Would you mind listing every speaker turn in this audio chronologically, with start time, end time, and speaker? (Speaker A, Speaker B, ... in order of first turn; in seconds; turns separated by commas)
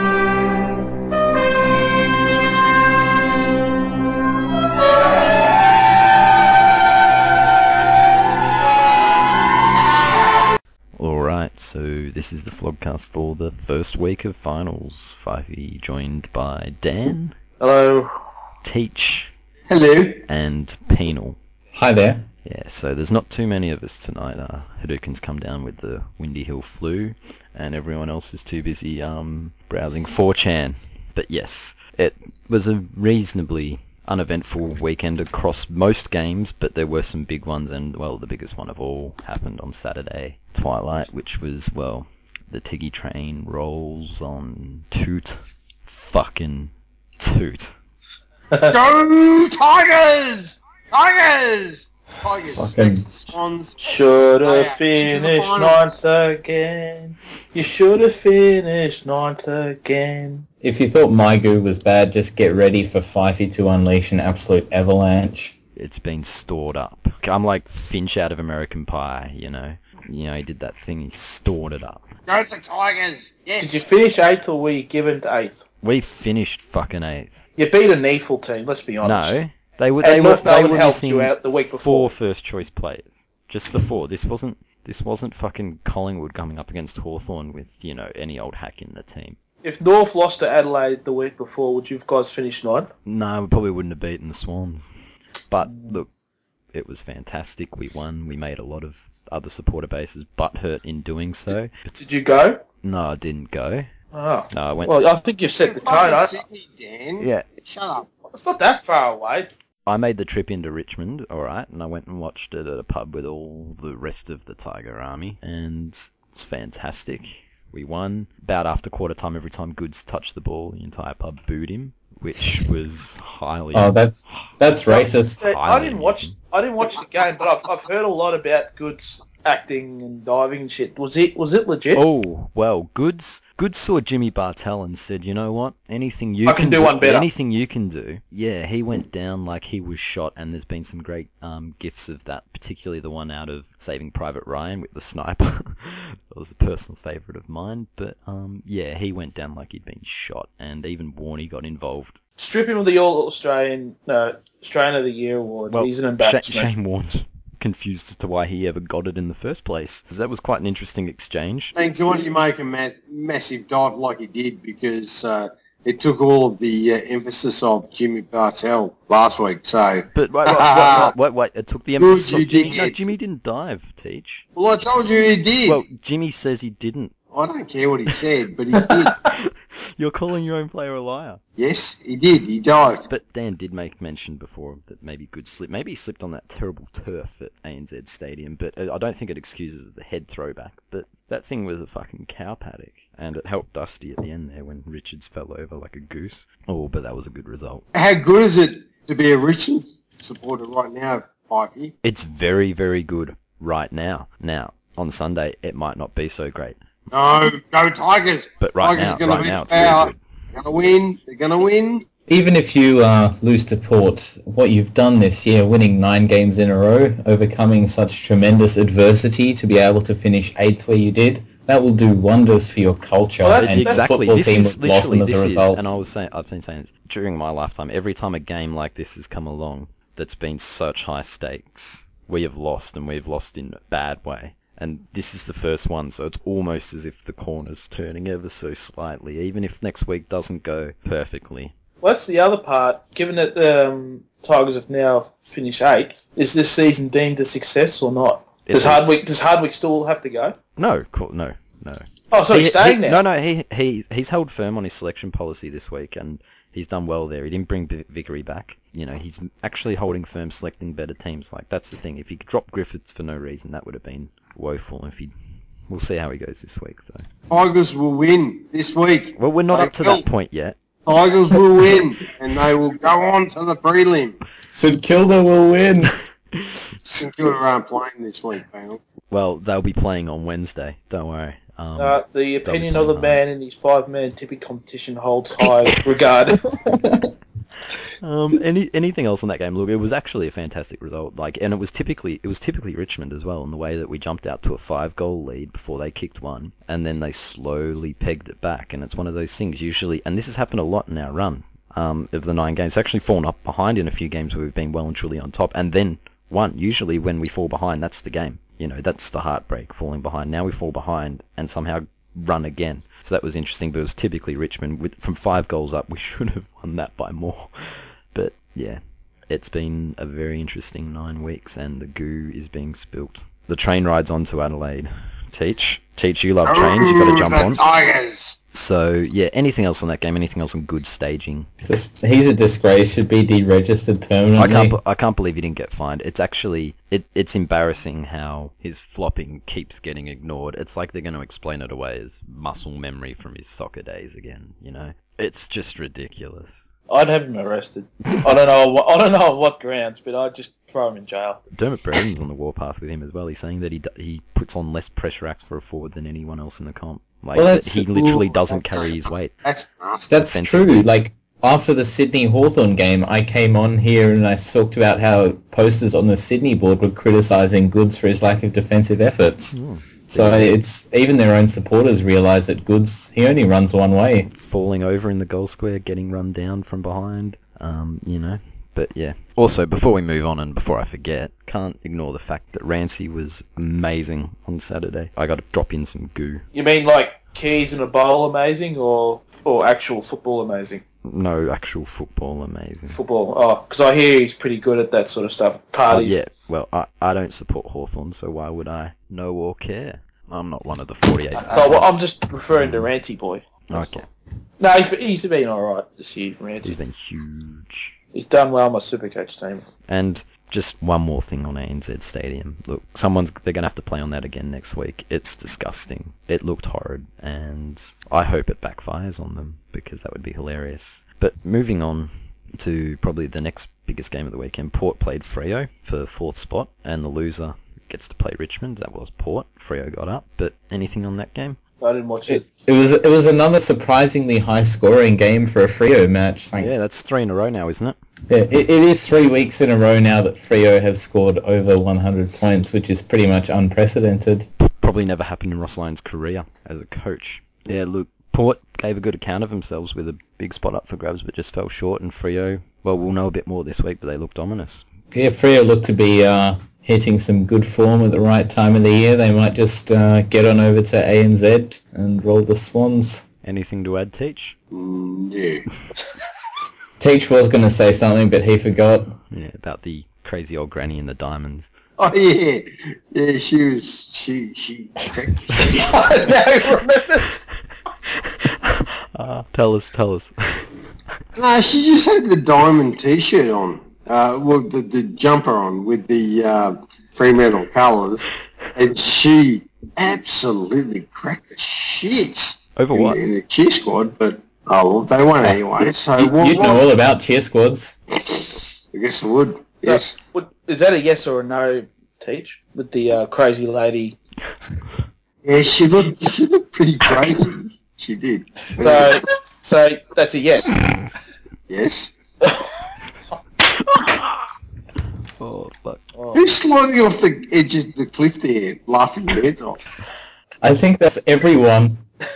Speaker A: 10.9-17.4, Speaker B: 17.6-18.2, Speaker A: 18.6-19.3, Speaker C: 19.7-20.2, Speaker A: 20.3-21.4, Speaker D: 21.7-22.3, Speaker A: 22.4-47.7, Speaker C: 48.6-55.9, Speaker D: 52.5-53.0, Speaker B: 53.8-60.5, Speaker D: 60.6-65.5, Speaker A: 65.8-72.0, Speaker C: 72.3-73.8, Speaker B: 73.6-75.6, Speaker A: 75.8-77.4, Speaker B: 77.6-79.4, Speaker A: 79.0-89.4, Speaker B: 80.0-82.1, Speaker B: 89.6-92.9, Speaker A: 93.0-94.9, Speaker A: 95.5-96.1, Speaker B: 95.6-96.0, Speaker A: 96.7-101.9, Speaker B: 101.9-102.6, Speaker A: 102.8-103.9, Speaker B: 104.1-106.3, Speaker A: 104.5-104.9, Speaker C: 105.6-108.1, Speaker A: 107.2-107.5, Speaker B: 108.3-109.5, Speaker A: 109.8-124.5, Speaker D: 123.7-125.4, Speaker B: 124.9-132.0, Speaker A: 125.4-126.3, Speaker A: 131.9-152.2, Speaker B: 136.4-137.3, Speaker B: 152.4-156.7, Speaker A: 155.7-161.8, Speaker C: 161.7-171.1, Speaker A: 170.1-174.4, Speaker C: 172.0-173.1, Speaker C: 174.6-175.8, Speaker A: 175.6-177.1, Speaker C: 177.3-179.2, Speaker A: 179.2-181.4, Speaker C: 181.6-183.1, Speaker A: 183.1-197.8, Speaker C: 197.9-201.9, Speaker A: 202.0-206.8, Speaker C: 207.1-212.1, Speaker A: 208.6-210.2, Speaker D: 212.3-225.9, Speaker B: 223.4-224.1, Speaker A: 223.6-241.7, Speaker B: 242.0-250.5, Speaker A: 248.7-249.0, Speaker A: 250.8-265.3, Speaker B: 252.3-253.2, Speaker A: 265.9-267.2, Speaker C: 267.5-270.2, Speaker A: 269.4-270.8, Speaker C: 271.1-274.4, Speaker D: 274.7-276.1, Speaker C: 277.1-279.0, Speaker A: 279.3-283.4, Speaker B: 282.0-286.6, Speaker D: 286.7-287.3, Speaker A: 288.2-327.8, Speaker C: 326.6-328.6, Speaker A: 328.7-331.7, Speaker D: 331.8-334.9, Speaker A: 334.6-346.9, Speaker B: 347.1-351.6, Speaker A: 351.7-359.5, Speaker D: 357.5-358.4, Speaker C: 358.3-360.4, Speaker D: 360.3-369.7, Speaker A: 360.5-361.1, Speaker A: 369.7-370.7, Speaker D: 370.3-374.5, Speaker A: 374.5-386.6, Speaker B: 386.7-391.0, Speaker A: 391.2-393.2, Speaker B: 393.1-396.5, Speaker A: 396.1-402.1, Speaker B: 401.6-404.2, Speaker A: 402.7-403.1, Speaker A: 403.9-404.2, Speaker B: 404.8-406.9, Speaker A: 406.8-408.1, Speaker B: 408.3-409.9, Speaker A: 410.1-431.8, Speaker B: 432.0-432.6, Speaker D: 432.5-436.9, Speaker A: 436.8-438.2, Speaker D: 438.5-444.7, Speaker A: 444.8-455.1, Speaker D: 455.3-463.4, Speaker A: 463.6-464.8, Speaker C: 464.9-465.9, Speaker D: 467.2-469.3, Speaker A: 469.5-471.9, Speaker C: 472.2-476.0, Speaker B: 475.8-477.6, Speaker A: 478.4-480.9, Speaker C: 481.6-497.0, Speaker A: 492.9-493.4, Speaker D: 496.4-498.1, Speaker C: 498.5-500.3, Speaker B: 500.1-504.4, Speaker C: 505.6-509.4, Speaker B: 509.0-510.9, Speaker C: 511.9-512.3, Speaker A: 514.0-514.6, Speaker A: 515.6-516.2, Speaker B: 516.3-516.7, Speaker C: 516.5-520.0, Speaker D: 520.8-522.2